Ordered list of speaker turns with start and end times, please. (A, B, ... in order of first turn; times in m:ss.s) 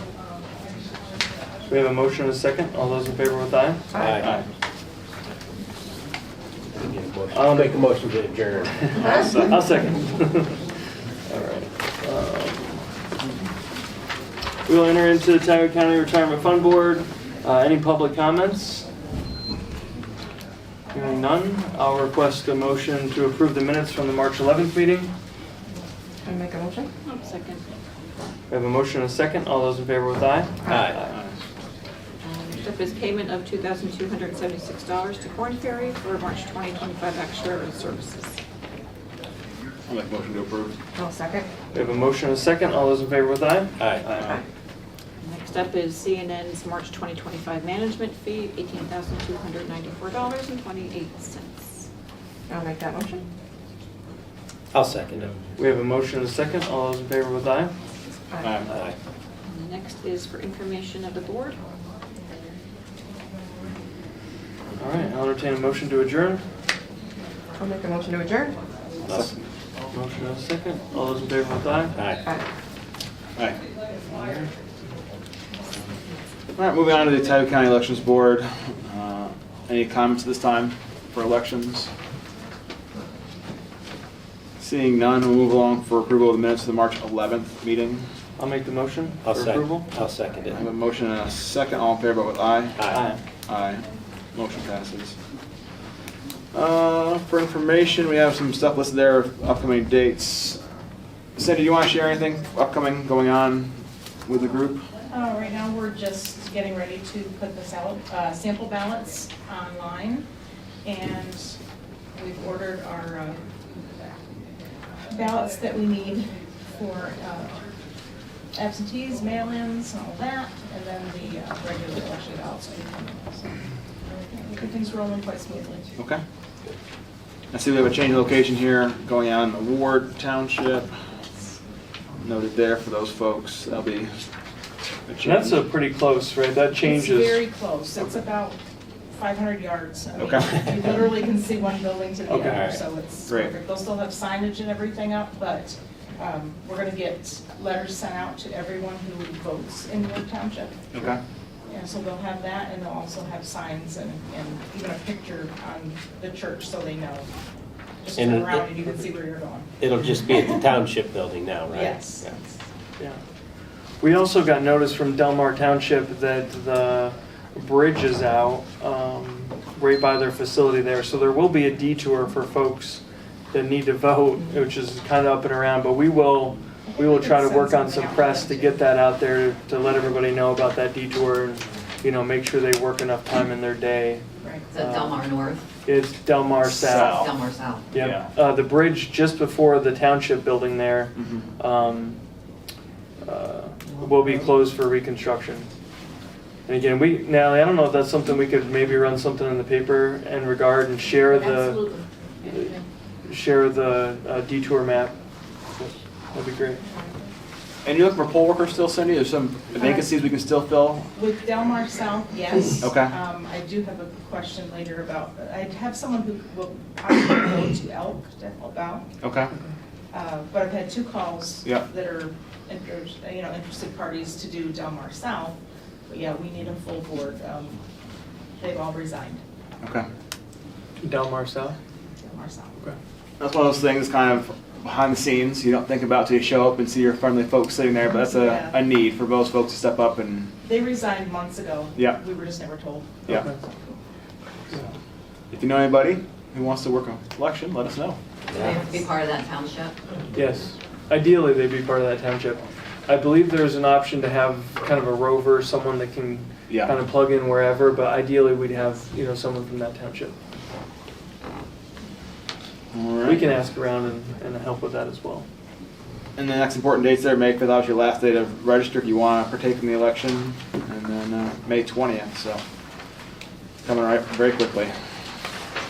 0:01.7-0:03.9 A
0:04.0-0:04.3 B
0:04.2-0:04.4 C
0:06.8-0:09.0 B
0:07.3-0:07.8 A
0:08.9-0:10.6 A
0:11.3-0:12.8 A
0:14.7-0:18.9 A
0:20.9-0:25.1 A
0:26.2-0:26.9 D
0:27.0-0:27.6 E
0:28.5-0:31.1 A
0:30.7-0:31.0 B
0:31.1-0:31.4 C
0:32.4-0:38.4 E
0:39.9-0:40.8 C
0:41.0-0:41.5 D
0:41.7-0:44.4 A
0:43.8-0:44.1 B
0:45.2-0:51.8 E
0:52.5-0:53.2 D
0:54.7-0:55.4 B
0:55.6-0:57.7 A
0:58.3-0:58.6 D
0:58.4-0:58.7 C
0:58.7-0:59.0 B
0:59.4-1:01.6 E
1:04.8-1:06.4 A
1:07.6-1:08.5 D
1:09.1-1:09.4 C
1:09.9-1:12.0 A
1:11.9-1:12.2 B
1:14.1-1:14.5 A
1:16.6-1:21.9 C
1:24.6-1:28.1 C
1:28.4-1:29.9 A
1:29.2-1:30.7 B
1:30.5-1:32.8 C
1:32.8-1:33.0 B
1:32.9-1:33.2 A
1:33.5-1:33.8 C
1:34.4-1:35.2 C
1:36.5-1:40.6 C
1:41.4-1:44.9 C
1:45.1-1:50.3 F
1:50.8-1:51.6 F
1:52.1-1:53.4 F
1:55.1-1:57.6 F
1:58.5-2:03.5 F
2:04.3-2:05.9 F
2:07.5-2:11.1 C
2:12.2-2:14.1 C
2:15.1-2:15.6 C
2:15.2-2:17.4 A
2:16.8-2:18.6 F
2:19.1-2:31.1 F
2:20.2-2:20.5 C
2:22.3-2:22.7 A
2:22.4-2:22.8 B
2:23.3-2:23.5 C
2:30.9-2:31.2 C
2:31.7-2:37.3 F
2:38.0-2:39.8 F
2:38.2-2:38.7 B
2:39.8-2:42.3 B
2:41.7-2:42.3 F
2:44.0-3:04.2 A
2:56.9-2:58.8 F
3:04.4-3:04.7 F
3:04.7-3:05.7 G
3:04.8-3:05.2 A
3:05.8-3:07.3 A
3:06.6-3:07.4 C
3:06.9-3:07.8 G
3:07.9-3:12.2 A
3:08.0-3:08.3 C
3:11.2-3:11.5 C
3:13.2-3:15.7 A
3:16.7-3:21.8 A
3:21.2-3:22.8 E
3:22.5-3:22.7 A
3:23.3-3:25.2 A
3:26.3-3:26.8 A
3:27.8-3:31.1 C
3:29.8-3:30.1 F
3:31.1-3:39.1 F
3:32.8-3:33.1 C
3:39.2-3:39.5 C
3:40.1-3:47.8 F
3:48.6-3:49.4 F
3:51.0-3:51.8 A
3:52.2-3:52.8 F
3:53.4-4:00.5 C
3:58.3-3:58.8 F
4:00.6-4:03.2 F
4:02.0-4:02.2 C
4:03.3-4:03.6 A
4:05.5-4:08.2 C
4:08.5-4:08.8 B
4:08.6-4:10.0 G
4:10.3-4:20.4 A
4:16.7-4:17.0 C
4:22.9-4:23.5 C
4:23.2-4:25.5 A
4:26.4-4:32.6 C
4:33.8-4:34.9 C